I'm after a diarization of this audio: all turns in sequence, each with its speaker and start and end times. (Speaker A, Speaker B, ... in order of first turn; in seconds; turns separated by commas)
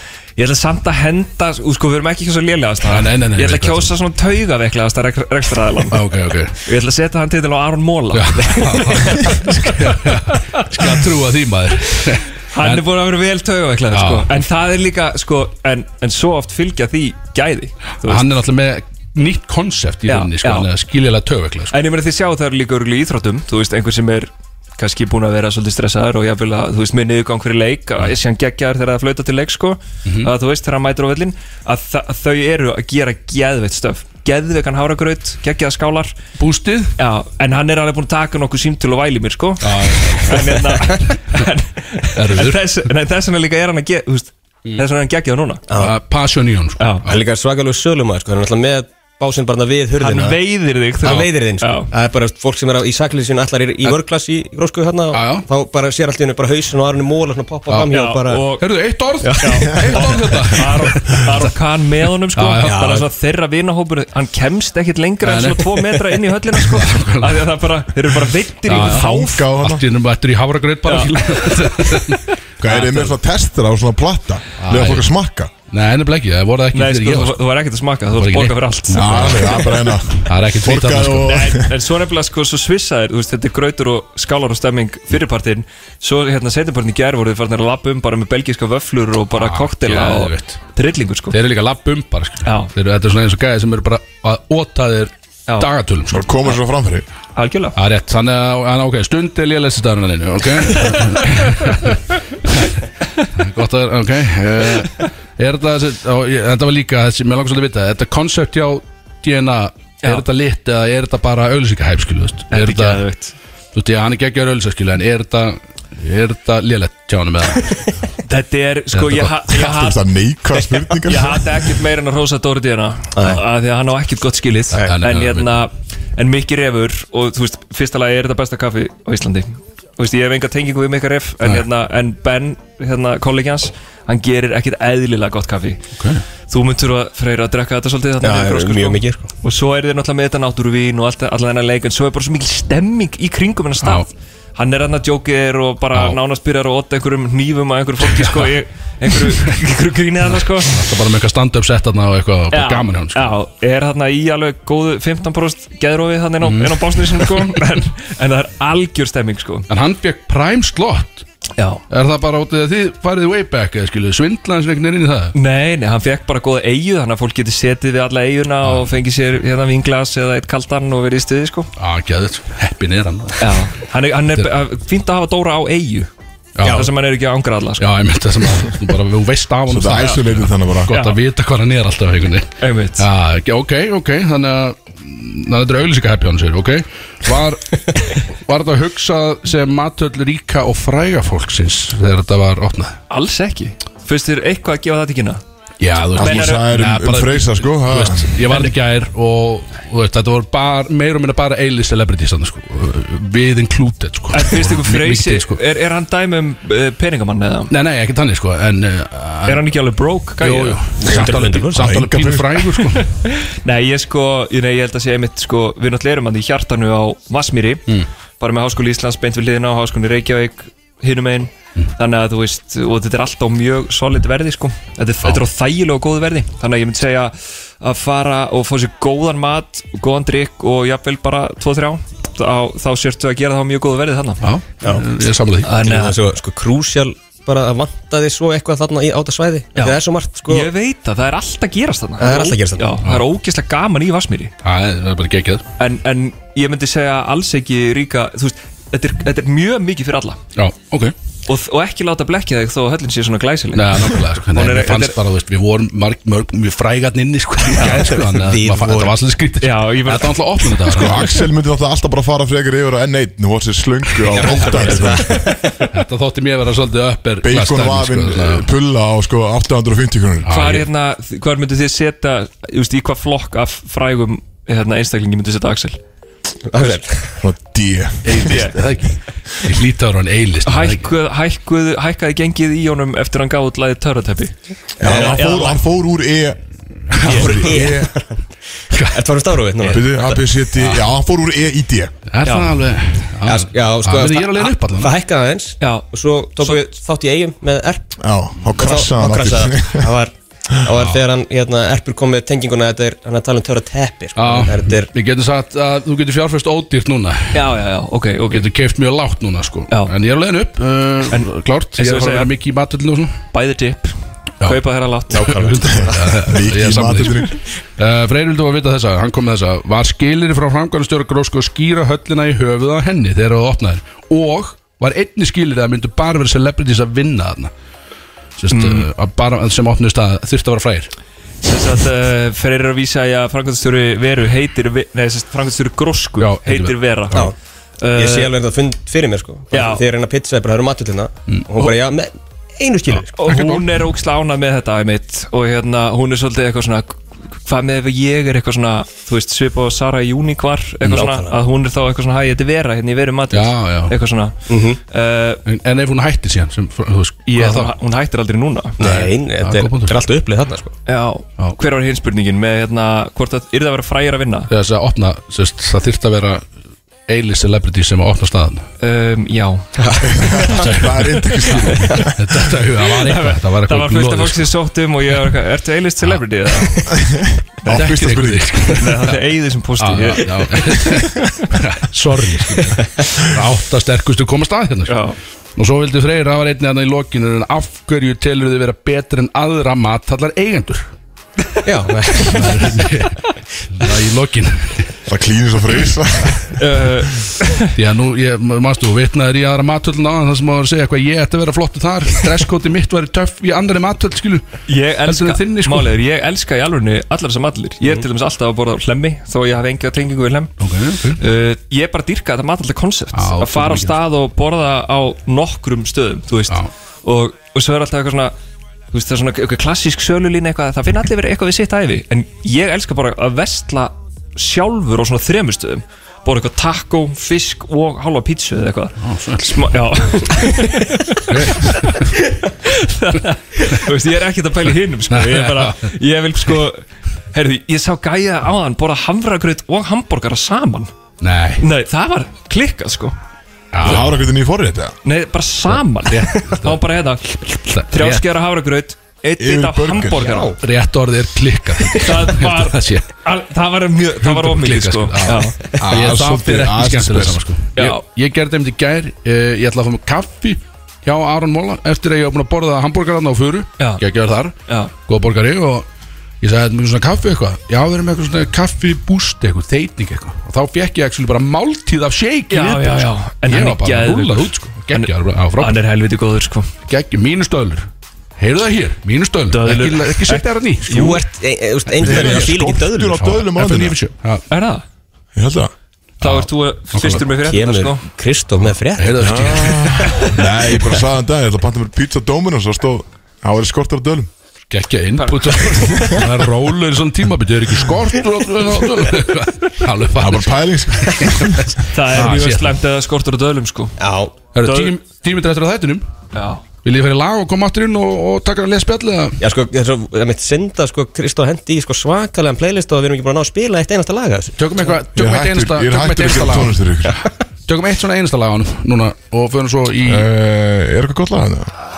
Speaker A: 0.4-11.1, Speaker B: 2.8-3.9, Speaker B: 5.9-6.6, Speaker B: 8.1-12.8, Speaker A: 12.5-18.3, Speaker B: 13.9-14.4, Speaker B: 18.0-21.8, Speaker A: 20.1-20.7, Speaker A: 21.7-36.1, Speaker B: 30.0-30.3, Speaker B: 36.4-36.9, Speaker A: 37.0-45.6, Speaker B: 39.6-41.5, Speaker B: 42.1-42.7, Speaker C: 45.7-45.9, Speaker B: 45.8-47.2, Speaker A: 46.8-47.0, Speaker C: 47.0-50.4, Speaker A: 50.0-51.9, Speaker C: 51.0-58.5, Speaker B: 55.1-55.5, Speaker A: 57.9-58.7, Speaker B: 58.6-61.5, Speaker C: 59.2-60.3, Speaker A: 59.4-69.5, Speaker B: 62.3-62.9, Speaker C: 62.6-63.1, Speaker B: 65.2-65.7, Speaker B: 66.5-67.5, Speaker B: 68.7-73.1, Speaker D: 68.7-69.8, Speaker A: 70.8-72.1, Speaker D: 72.6-75.5, Speaker B: 74.6-75.1, Speaker B: 75.7-77.4, Speaker A: 76.7-79.8, Speaker B: 78.1-81.5, Speaker D: 78.9-81.7, Speaker A: 81.2-91.4, Speaker B: 89.3-90.6, Speaker B: 91.3-96.3, Speaker A: 92.4-92.7, Speaker D: 96.1-97.0, Speaker A: 97.3-97.8, Speaker B: 97.7-113.0, Speaker A: 100.7-101.7, Speaker A: 112.5-113.3, Speaker B: 113.7-117.8, Speaker A: 118.3-120.0, Speaker B: 118.9-119.3, Speaker D: 119.5-121.5, Speaker A: 121.0-135.8, Speaker C: 123.1-123.4, Speaker B: 124.8-125.6, Speaker B: 135.9-136.2, Speaker A: 136.5-150.9, Speaker C: 138.2-139.3, Speaker B: 143.8-144.1, Speaker B: 145.9-146.2, Speaker B: 148.0-148.5, Speaker B: 149.1-149.5, Speaker B: 150.6-153.3, Speaker A: 152.5-159.7, Speaker B: 156.4-157.6, Speaker B: 159.7-161.2, Speaker B: 161.9-165.3, Speaker A: 165.3-171.7, Speaker B: 168.6-168.9, Speaker B: 171.8-173.7, Speaker A: 173.4-176.1, Speaker B: 176.6-176.9, Speaker C: 176.6-176.9, Speaker A: 176.7-177.9, Speaker B: 177.8-193.0, Speaker D: 179.7-180.9, Speaker A: 180.9-181.2, Speaker A: 182.6-183.1, Speaker A: 193.1-195.4, Speaker B: 195.8-205.6, Speaker A: 196.1-196.6, Speaker D: 196.1-198.3, Speaker A: 204.3-207.7, Speaker B: 207.7-209.7, Speaker A: 209.4-210.9, Speaker B: 210.4-213.1, Speaker C: 211.0-211.9, Speaker D: 211.7-212.6, Speaker A: 212.8-217.8, Speaker A: 218.4-234.4, Speaker B: 234.4-235.8, Speaker A: 235.6-236.2, Speaker C: 235.8-240.7, Speaker A: 239.8-244.5, Speaker C: 242.2-242.9, Speaker B: 244.6-245.6, Speaker A: 245.8-250.4, Speaker B: 250.6-251.1, Speaker A: 251.5-255.2, Speaker B: 253.7-261.3, Speaker A: 257.7-258.1, Speaker C: 257.8-259.1, Speaker A: 259.6-260.9, Speaker D: 260.9-265.5, Speaker B: 264.3-265.2, Speaker C: 264.8-265.7, Speaker B: 265.9-268.7, Speaker D: 267.4-270.6, Speaker B: 270.4-270.9, Speaker A: 270.5-276.0, Speaker C: 276.7-277.4, Speaker D: 277.4-278.6, Speaker B: 278.2-281.1, Speaker A: 278.4-278.8, Speaker A: 280.6-285.8, Speaker D: 285.0-286.6, Speaker C: 285.0-285.4, Speaker B: 287.1-288.0, Speaker D: 287.1-288.1, Speaker A: 287.3-287.6, Speaker C: 287.4-288.4, Speaker B: 288.9-289.2, Speaker C: 289.1-290.4, Speaker D: 289.8-292.1, Speaker B: 292.3-295.1, Speaker A: 292.4-292.8, Speaker C: 293.4-298.1, Speaker A: 295.8-296.8, Speaker D: 298.2-300.1, Speaker C: 298.8-305.1, Speaker B: 304.4-307.6, Speaker A: 307.5-308.6, Speaker B: 308.5-313.4, Speaker A: 309.9-310.1, Speaker A: 311.3-312.5, Speaker A: 313.5-315.9, Speaker B: 314.6-327.7, Speaker C: 315.3-316.1, Speaker D: 316.2-317.6, Speaker B: 328.6-331.1, Speaker A: 328.7-329.1, Speaker A: 331.6-337.5, Speaker B: 336.4-337.5, Speaker A: 338.0-338.5, Speaker C: 338.1-343.4, Speaker A: 339.7-340.0, Speaker B: 341.5-341.9, Speaker A: 343.4-354.6, Speaker B: 343.4-343.9, Speaker C: 351.0-351.6, Speaker B: 353.5-354.1, Speaker C: 354.7-355.0, Speaker A: 355.1-355.6, Speaker B: 355.6-357.9, Speaker A: 357.5-359.0, Speaker B: 359.0-360.2, Speaker C: 359.0-360.9, Speaker A: 361.1-364.7, Speaker B: 364.7-366.7, Speaker B: 367.3-368.8, Speaker A: 369.0-369.9, Speaker C: 370.0-370.3, Speaker D: 370.2-372.3, Speaker B: 370.7-374.7, Speaker A: 373.1-377.1, Speaker B: 376.2-377.0, Speaker D: 377.1-378.9, Speaker B: 377.9-379.4, Speaker A: 378.9-381.5, Speaker B: 380.0-385.2, Speaker A: 385.1-385.3, Speaker B: 385.8-391.1, Speaker C: 391.8-393.0, Speaker B: 392.4-393.4, Speaker B: 393.9-395.1, Speaker D: 395.2-396.8, Speaker A: 396.8-397.9, Speaker B: 397.9-406.1, Speaker A: 404.9-410.7, Speaker B: 410.8-411.4, Speaker A: 411.4-418.5, Speaker B: 413.3-414.2, Speaker A: 419.1-437.0, Speaker B: 429.2-429.7, Speaker B: 431.4-432.3, Speaker B: 435.3-436.1, Speaker A: 437.5-441.1, Speaker B: 441.4-441.8, Speaker A: 441.8-443.3, Speaker B: 443.9-444.4, Speaker D: 444.0-445.1, Speaker A: 445.2-450.7, Speaker B: 445.9-447.0, Speaker B: 447.8-448.5, Speaker D: 449.6-450.6, Speaker C: 450.4-450.8, Speaker B: 450.8-453.3, Speaker A: 452.1-455.9, Speaker B: 454.4-466.1, Speaker D: 456.0-457.6, Speaker A: 457.9-458.2, Speaker B: 466.6-476.0, Speaker A: 472.7-476.9, Speaker B: 477.1-481.4, Speaker A: 479.7-481.4, Speaker C: 481.1-483.4, Speaker D: 482.1-484.2, Speaker B: 482.2-484.6, Speaker A: 484.7-485.0, Speaker D: 485.5-485.9, Speaker B: 486.4-487.4, Speaker A: 486.4-488.2, Speaker C: 487.4-490.5, Speaker B: 489.1-490.5, Speaker D: 489.4-494.5, Speaker B: 494.9-503.0, Speaker A: 495.4-496.5, Speaker D: 500.4-502.0, Speaker A: 502.1-504.1, Speaker C: 504.2-504.5, Speaker B: 504.7-506.2, Speaker A: 504.8-505.2, Speaker A: 506.5-506.8, Speaker B: 507.0-509.6, Speaker C: 509.6-514.7, Speaker B: 514.8-517.0, Speaker D: 515.3-517.4, Speaker B: 517.9-520.5, Speaker D: 520.2-521.9